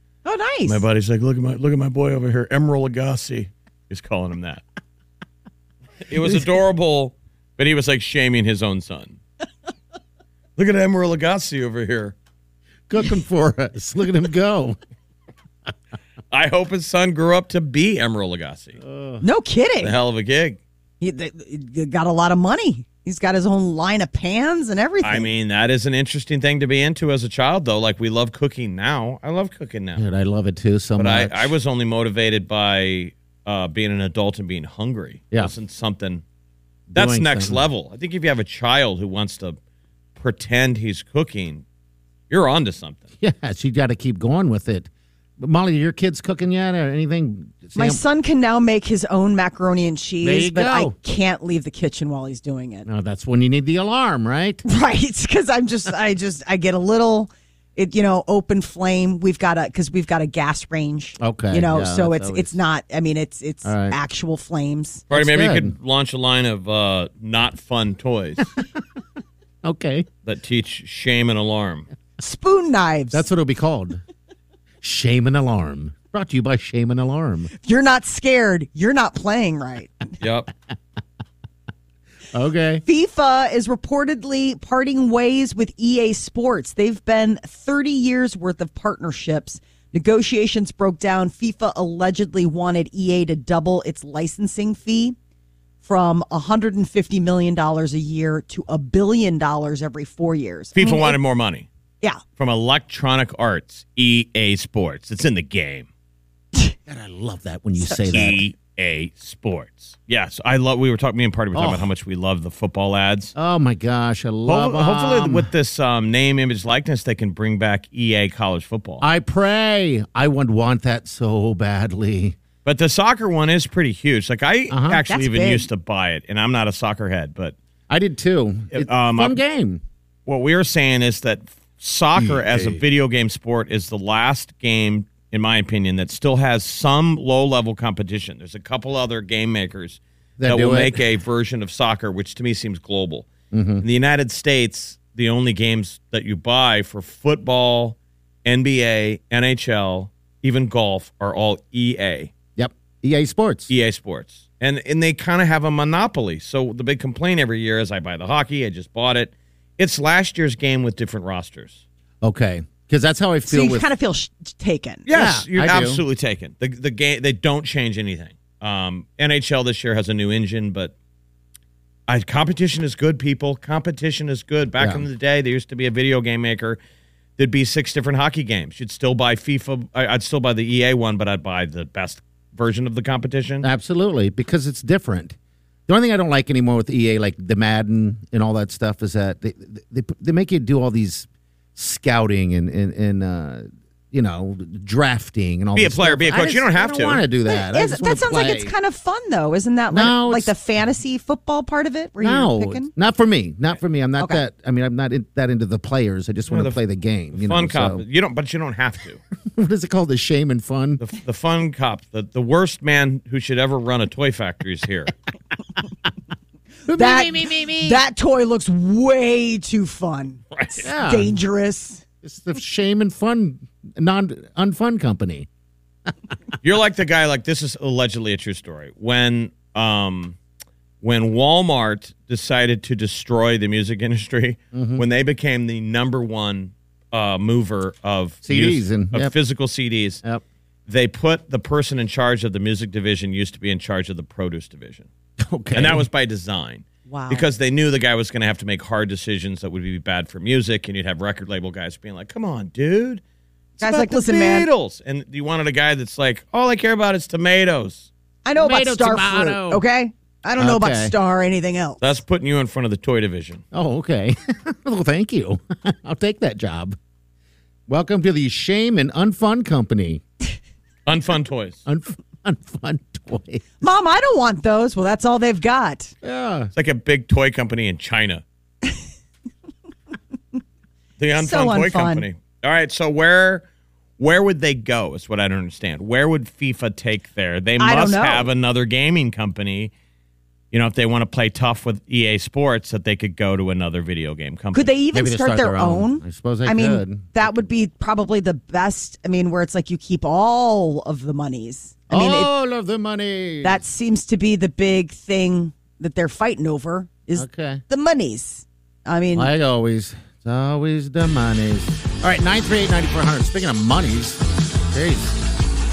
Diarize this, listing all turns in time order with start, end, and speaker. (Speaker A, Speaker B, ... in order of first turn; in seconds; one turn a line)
Speaker A: 0.2-0.8
Speaker B: 0.7-4.6
Speaker B: 6.1-9.2
Speaker B: 10.6-12.1
Speaker C: 12.9-14.8
Speaker B: 16.3-18.8
Speaker C: 18.8-19.2
Speaker A: 19.2-19.9
Speaker B: 19.8-20.6
Speaker A: 21.0-25.3
Speaker B: 25.0-30.0
Speaker C: 29.9-31.5
Speaker B: 31.0-36.2
Speaker C: 36.9-37.6
Speaker B: 36.9-39.6
Speaker B: 40.1-41.6
Speaker B: 42.3-43.0
Speaker C: 43.2-48.0
Speaker A: 47.7-52.9
Speaker C: 50.2-50.9
Speaker C: 52.9-54.6
Speaker A: 54.6-65.0
Speaker C: 61.2-62.6
Speaker C: 63.6-64.0
Speaker C: 65.1-65.7
Speaker B: 65.1-68.5
Speaker C: 69.6-70.1
Speaker B: 70.2-71.9
Speaker A: 72.2-73.2
Speaker C: 73.1-74.0
Speaker C: 74.8-77.5
Speaker A: 77.6-79.9
Speaker B: 80.2-80.5
Speaker C: 82.3-82.8
Speaker A: 82.8-95.2
Speaker A: 95.8-101.2
Speaker B: 100.7-101.7
Speaker B: 102.4-105.9
Speaker C: 106.9-108.4
Speaker A: 107.8-108.1
Speaker B: 108.1-113.3
Speaker C: 111.5-111.9
Speaker C: 113.3-115.5
Speaker B: 114.5-119.0
Speaker C: 119.0-122.4
Speaker B: 122.6-127.5
Speaker C: 124.7-125.0
Speaker A: 125.0-125.7
Speaker C: 127.9-129.8
Speaker B: 128.7-129.4
Speaker B: 130.2-143.3
Speaker C: 132.2-132.8
Speaker C: 140.4-141.0
Speaker C: 143.5-143.8
Speaker B: 143.8-152.3
Speaker C: 152.6-153.7
Speaker B: 153.7-161.8
Speaker C: 162.2-163.8
Speaker A: 163.5-165.1
Speaker B: 165.1-170.9
Speaker C: 165.1-166.0
Speaker B: 172.1-176.8
Speaker C: 174.8-175.0
Speaker B: 177.4-183.7
Speaker C: 183.6-185.3
Speaker C: 185.9-198.7
Speaker B: 195.7-197.2
Speaker A: 197.4-202.9
Speaker C: 199.9-200.5
Speaker C: 202.2-208.0
Speaker B: 206.5-206.8
Speaker B: 207.3-209.2
Speaker C: 209.5-211.0
Speaker B: 211.0-215.1
Speaker C: 216.9-218.0
Speaker A: 216.9-222.0
Speaker B: 220.5-220.9
Speaker C: 220.8-221.3
Speaker C: 222.2-225.5
Speaker B: 226.6-230.4
Speaker B: 231.0-240.2
Speaker C: 234.7-235.0
Speaker C: 238.4-239.3
Speaker B: 240.9-245.1
Speaker C: 245.4-246.1
Speaker B: 245.7-253.2
Speaker A: 247.1-247.4
Speaker B: 253.8-258.1
Speaker A: 253.8-254.7
Speaker A: 258.4-262.1
Speaker C: 258.6-259.8
Speaker C: 260.6-261.1
Speaker B: 262.0-263.6
Speaker C: 263.7-266.9
Speaker C: 267.9-270.2
Speaker B: 271.1-271.8
Speaker C: 271.9-273.6
Speaker A: 273.8-276.1
Speaker C: 276.2-276.7
Speaker B: 276.7-278.4
Speaker B: 281.2-283.6
Speaker A: 281.4-282.2
Speaker B: 284.2-289.9
Speaker A: 287.8-288.5
Speaker B: 290.7-294.9
Speaker A: 294.7-302.5
Speaker C: 295.1-297.3
Speaker C: 302.1-303.8
Speaker A: 303.6-309.5
Speaker C: 307.4-307.8
Speaker C: 309.3-315.4